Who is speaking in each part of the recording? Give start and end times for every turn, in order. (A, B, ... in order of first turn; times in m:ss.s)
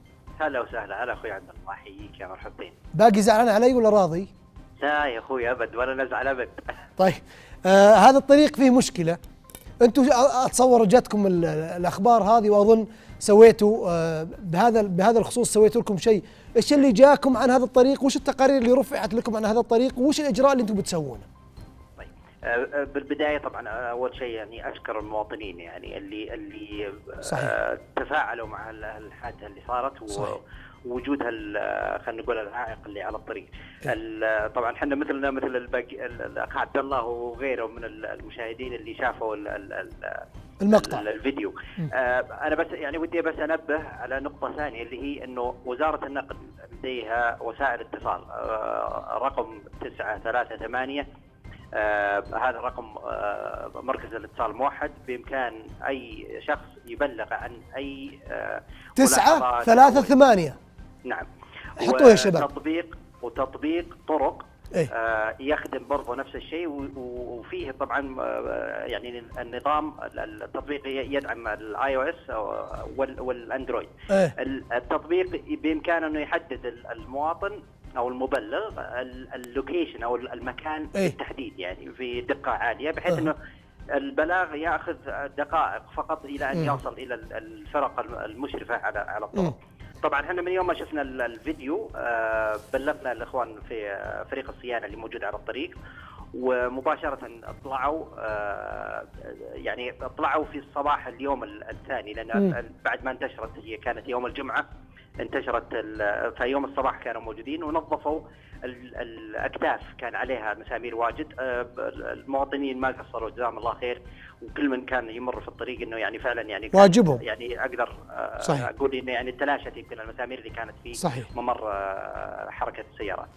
0:00.4-0:02.7 A
0:02.9-0:04.3 B
0:04.8-0:06.7 A
0:07.0-0:09.2 B
0:09.8-0:21.3 B
0:22.0-0:51.0 A
0:27.2-0:27.5 B
0:40.6-0:41.0 B
0:51.7-1:00.1 A
0:59.0-1:00.6 B
1:01.0-1:23.4 A
1:01.8-1:02.5 B
1:23.9-1:35.7 A
1:36.3-1:44.6 A
1:45.2-2:03.3 A
1:56.7-1:57.2 B
2:01.0-2:01.3 B